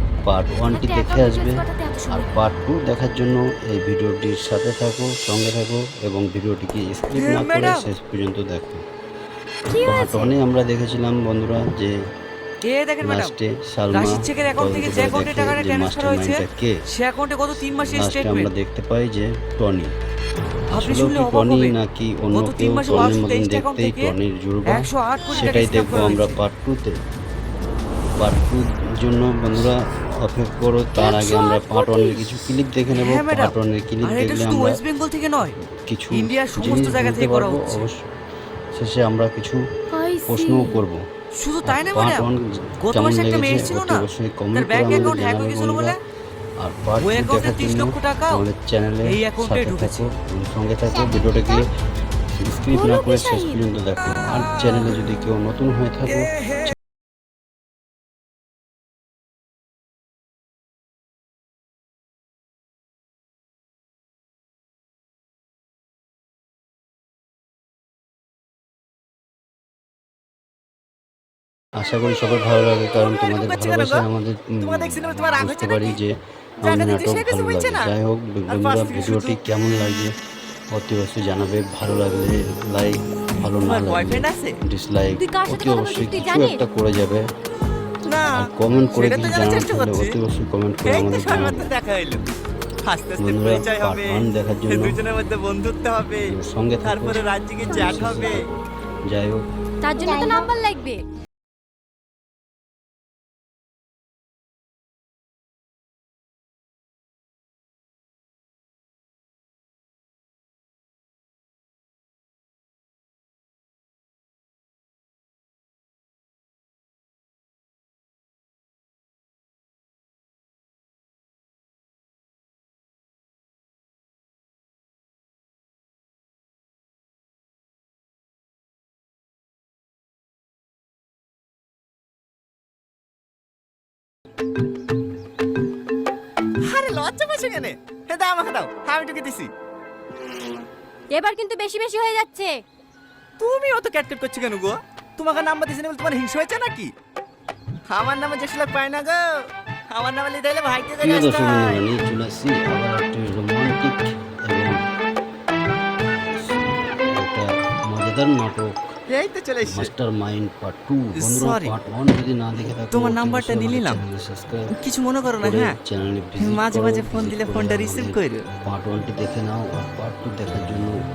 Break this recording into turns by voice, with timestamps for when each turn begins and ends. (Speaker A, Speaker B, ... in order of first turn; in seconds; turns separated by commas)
Speaker A: 0.2-8.8, Speaker B: 0.7-2.3, Speaker C: 7.2-7.8, Speaker B: 9.7-10.3, Speaker A: 9.8-11.9, Speaker C: 12.7-13.3, Speaker A: 13.0-16.7, Speaker C: 13.9-16.4, Speaker C: 17.0-18.5, Speaker A: 17.9-19.9, Speaker C: 20.7-21.7, Speaker A: 20.8-26.9, Speaker C: 22.3-24.1, Speaker C: 24.7-26.3, Speaker D: 25.4-25.7, Speaker A: 28.2-34.8, Speaker B: 31.0-32.2, Speaker C: 33.1-33.5, Speaker C: 34.0-35.5, Speaker A: 35.7-38.0, Speaker C: 36.1-37.7, Speaker A: 38.7-39.6, Speaker B: 39.9-40.8, Speaker A: 40.3-41.0, Speaker C: 41.4-42.3, Speaker A: 41.6-46.0, Speaker C: 42.8-46.0, Speaker D: 44.9-45.1, Speaker A: 46.6-51.7, Speaker C: 47.0-48.4, Speaker C: 49.1-49.9, Speaker A: 52.4-56.7, Speaker B: 52.7-53.6, Speaker A: 71.7-80.1, Speaker D: 73.2-74.0, Speaker D: 74.6-76.0, Speaker D: 76.6-77.9, Speaker D: 78.5-79.4, Speaker A: 80.7-87.2, Speaker D: 83.7-84.6, Speaker B: 85.2-86.6, Speaker D: 88.0-90.2, Speaker A: 88.3-91.7, Speaker D: 90.8-92.2, Speaker D: 92.8-98.4, Speaker A: 93.2-95.0, Speaker A: 96.2-99.4, Speaker B: 97.7-98.1, Speaker B: 99.8-101.0, Speaker D: 136.6-139.5, Speaker B: 141.1-142.6, Speaker D: 143.4-146.9, Speaker D: 147.9-149.3, Speaker D: 149.9-151.8, Speaker A: 151.0-154.8, Speaker A: 156.4-158.9, Speaker D: 159.1-159.9, Speaker A: 159.6-164.7, Speaker D: 161.2-161.7, Speaker D: 162.9-164.0, Speaker D: 164.7-165.8, Speaker A: 165.4-171.0, Speaker D: 166.4-168.5